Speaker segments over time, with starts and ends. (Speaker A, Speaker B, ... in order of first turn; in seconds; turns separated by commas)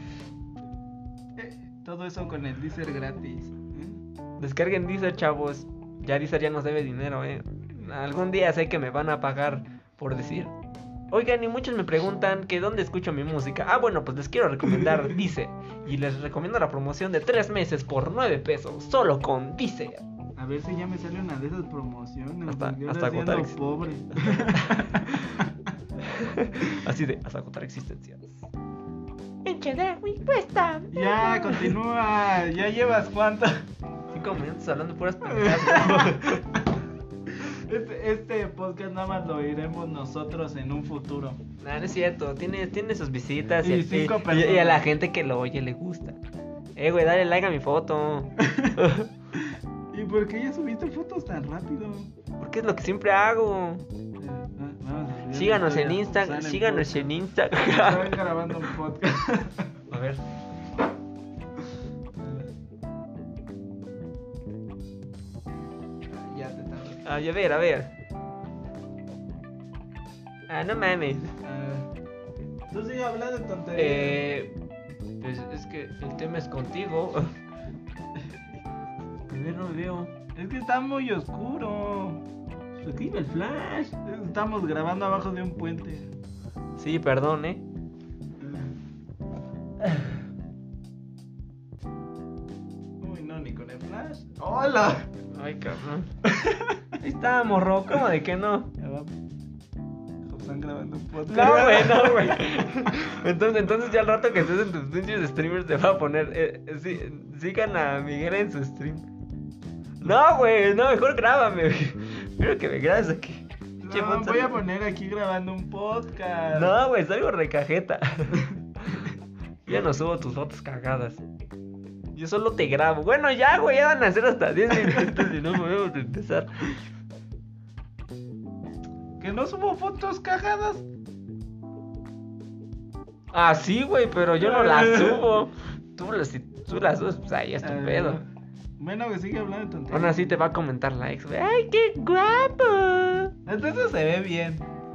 Speaker A: 1.4-4.0, Speaker B: 4.4-10.5, Speaker B: 11.1-20.0, Speaker A: 20.4-25.7, Speaker B: 22.5-23.6, Speaker B: 24.1-25.2, Speaker B: 26.0-28.4, Speaker B: 29.4-31.7, Speaker A: 30.9-33.6, Speaker B: 34.1-36.4, Speaker A: 35.2-36.7, Speaker A: 37.3-41.4, Speaker B: 41.6-46.2, Speaker A: 43.6-44.9, Speaker B: 46.8-49.1, Speaker A: 48.4-52.1, Speaker B: 52.4-53.8, Speaker A: 54.2-59.8, Speaker B: 55.3-58.2, Speaker B: 59.9-60.2, Speaker A: 62.2-62.5, Speaker A: 66.1-67.0, Speaker B: 67.0-67.9, Speaker B: 70.5-71.3, Speaker A: 71.4-71.9, Speaker A: 72.7-74.2, Speaker B: 73.7-74.5, Speaker B: 75.2-77.3, Speaker B: 79.3-80.1, Speaker A: 80.3-82.2, Speaker A: 82.8-86.1, Speaker B: 86.8-87.6, Speaker A: 88.4-88.7, Speaker A: 93.0-95.1, Speaker B: 95.3-96.1, Speaker A: 96.2-96.9, Speaker B: 97.0-98.7, Speaker A: 98.8-99.1, Speaker A: 100.3-103.1, Speaker B: 101.2-109.1, Speaker B: 110.0-114.6, Speaker A: 113.8-116.8, Speaker B: 116.5-119.1, Speaker B: 119.7-121.2, Speaker B: 122.1-126.7, Speaker A: 129.2-130.8, Speaker B: 133.3-138.2, Speaker A: 134.4-135.3, Speaker A: 137.6-140.3, Speaker B: 139.9-143.3, Speaker A: 143.4-144.7